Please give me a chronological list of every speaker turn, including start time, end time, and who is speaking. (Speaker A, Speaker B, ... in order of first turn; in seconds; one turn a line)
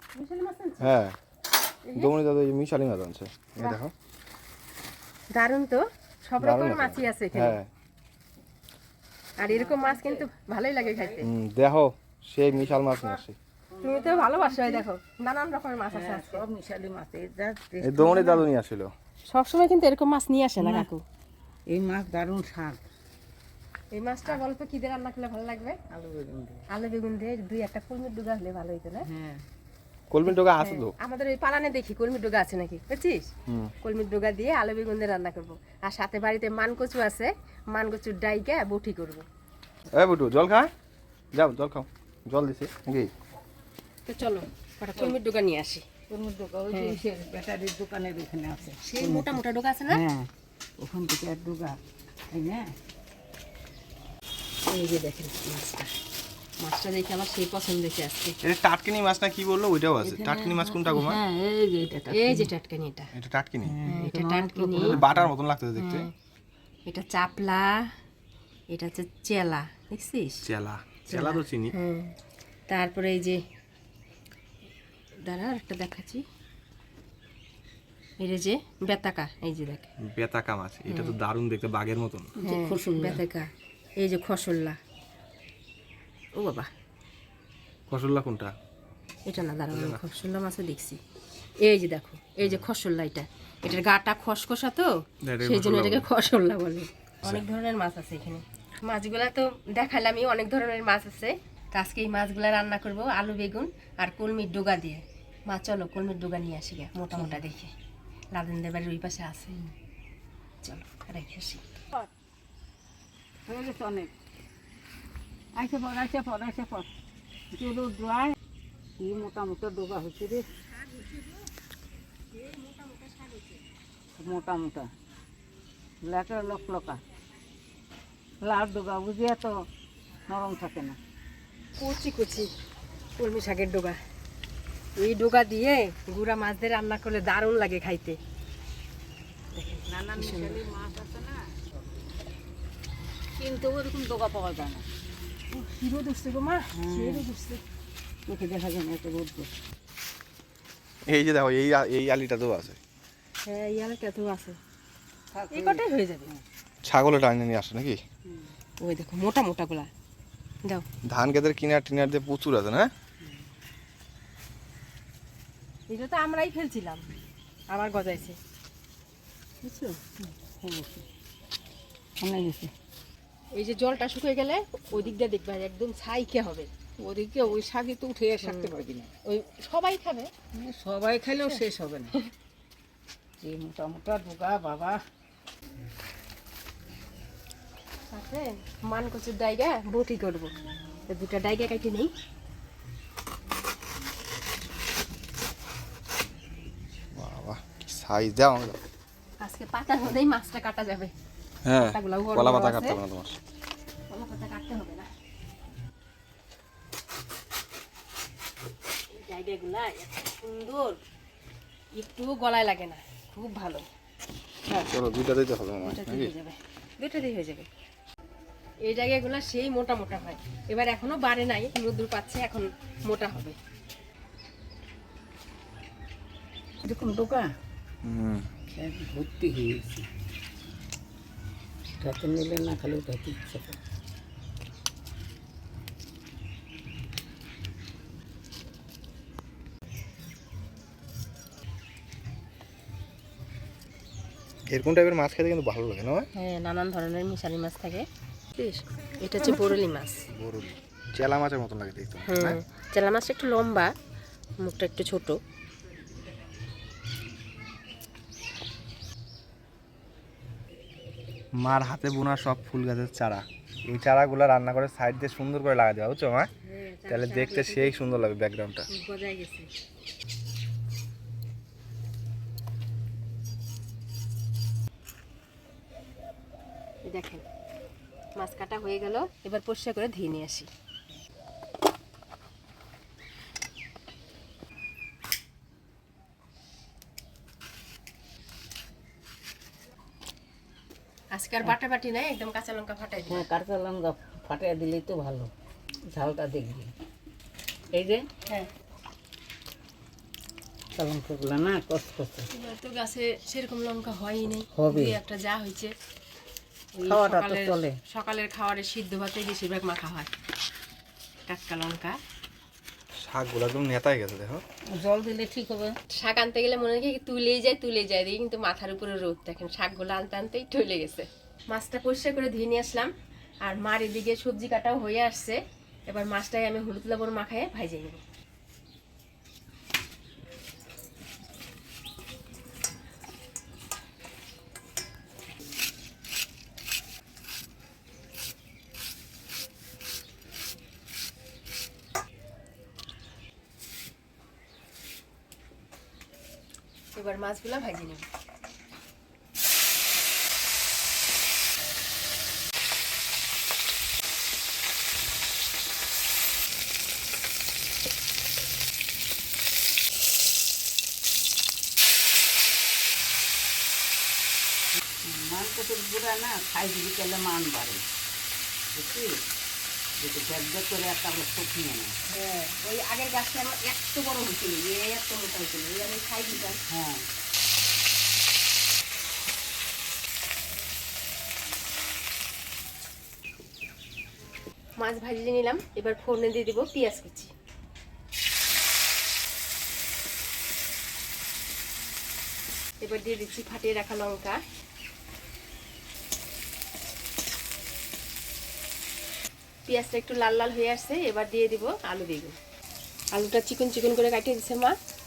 Speaker A: 0.1-0.9
Speaker B: 0.8-1.2
Speaker A: 1.8-2.1
Speaker B: 1.9-3.9
Speaker A: 5.3-7.6
Speaker B: 6.4-7.7
Speaker A: 9.4-11.3
Speaker C: 9.4-10.3
Speaker C: 10.8-11.2
Speaker B: 11.2-13.4
Speaker C: 12.5-14.8
Speaker A: 13.8-16.4
Speaker C: 15.9-18.4
Speaker B: 17.8-18.9
Speaker A: 18.0-18.3
Speaker A: 19.3-21.0
Speaker C: 20.6-20.9
Speaker C: 21.7-22.8
Speaker A: 23.9-25.8
Speaker C: 25.9-26.6
Speaker A: 26.7-29.1
Speaker C: 29.0-29.4
Speaker B: 30.1-30.9
Speaker A: 30.3-33.3
Speaker B: 33.5-33.7
Speaker A: 33.8-39.2
Speaker B: 39.9-40.7
Speaker B: 41.3-43.1
Speaker A: 44.0-45.9
Speaker C: 46.1-51.8
Speaker A: 46.7-47.0
Speaker A: 48.8-50.0
Speaker C: 52.3-52.7
Speaker A: 54.7-55.9
Speaker A: 56.6-58.4
Speaker B: 58.4-61.2
Speaker C: 60.0-62.5
Speaker A: 62.1-63.1
Speaker B: 63.1-63.8
Speaker C: 63.6-65.3
Speaker A: 63.8-65.0
Speaker B: 64.8-66.1
Speaker A: 65.8-66.1
Speaker A: 66.9-67.9
Speaker A: 68.7-70.4
Speaker B: 70.4-71.7
Speaker A: 71.1-72.1
Speaker A: 72.7-73.4
Speaker A: 75.2-76.2
Speaker A: 78.2-79.9
Speaker B: 80.0-82.3
Speaker A: 80.9-81.2
Speaker C: 82.4-83.2
Speaker A: 82.4-84.8
Speaker A: 86.3-86.7
Speaker B: 87.9-88.5
Speaker A: 89.2-91.0
Speaker B: 89.7-90.0
Speaker A: 91.6-94.9
Speaker B: 95.2-96.1
Speaker A: 95.4-107.7
Speaker A: 108.3-109.6
Speaker A: 110.6-111.6
Speaker C: 113.5-114.1
Speaker C: 115.5-116.9
Speaker C: 117.5-118.3
Speaker C: 119.0-120.5
Speaker A: 120.7-121.4
Speaker A: 122.3-123.6
Speaker C: 124.2-124.9
Speaker C: 126.0-127.0
Speaker C: 128.4-129.5
Speaker C: 130.3-131.0
Speaker A: 131.8-132.5
Speaker A: 133.2-134.0
Speaker A: 135.0-138.2
Speaker A: 139.5-140.6
Speaker C: 139.9-141.6
Speaker C: 143.4-144.8
Speaker A: 145.5-147.6
Speaker C: 146.7-147.3
Speaker C: 148.3-149.5
Speaker B: 151.1-152.8
Speaker A: 153.4-154.6
Speaker C: 155.3-155.8
Speaker A: 155.5-156.3
Speaker B: 156.8-158.0
Speaker C: 158.3-158.5
Speaker A: 158.8-159.9
Speaker B: 161.0-162.9
Speaker A: 165.9-167.0
Speaker A: 167.7-168.4
Speaker A: 169.6-170.2
Speaker C: 170.4-171.0
Speaker C: 172.2-172.7
Speaker A: 173.5-176.7
Speaker C: 177.0-179.1
Speaker A: 178.4-178.7
Speaker A: 179.2-180.3
Speaker C: 180.5-182.1
Speaker C: 183.4-185.0
Speaker A: 188.1-190.5
Speaker A: 191.1-192.1
Speaker B: 197.1-198.8
Speaker A: 199.4-201.1
Speaker B: 201.6-203.4
Speaker A: 201.8-203.0
Speaker A: 204.1-205.1
Speaker A: 209.2-211.0
Speaker A: 211.9-213.8
Speaker B: 214.9-216.3
Speaker A: 215.8-217.7
Speaker A: 218.8-223.6
Speaker C: 226.8-227.5
Speaker B: 228.0-228.5
Speaker C: 228.7-230.1
Speaker C: 232.0-233.8
Speaker B: 244.7-246.3
Speaker A: 246.3-250.3
Speaker B: 250.3-252.6
Speaker A: 252.3-253.9
Speaker A: 254.6-255.4
Speaker B: 261.6-266.5
Speaker A: 266.6-268.0
Speaker B: 267.1-268.9
Speaker A: 268.9-269.7
Speaker A: 277.1-277.4
Speaker A: 278.4-280.7
Speaker A: 291.3-293.5
Speaker C: 293.3-295.5
Speaker C: 296.1-296.9
Speaker C: 297.9-298.2
Speaker C: 300.9-302.5
Speaker A: 302.5-305.9
Speaker C: 304.7-305.2
Speaker A: 306.9-310.3
Speaker C: 307.1-307.9
Speaker A: 311.5-312.2
Speaker B: 313.2-314.6
Speaker C: 314.9-316.0
Speaker A: 316.1-323.1
Speaker A: 323.6-328.2
Speaker A: 347.1-348.3
Speaker C: 365.2-368.0
Speaker C: 368.9-369.4
Speaker C: 370.2-372.1
Speaker A: 372.3-376.8
Speaker C: 376.9-377.3
Speaker A: 385.0-387.5
Speaker A: 393.0-394.6
Speaker A: 399.9-402.6
Speaker A: 403.3-404.9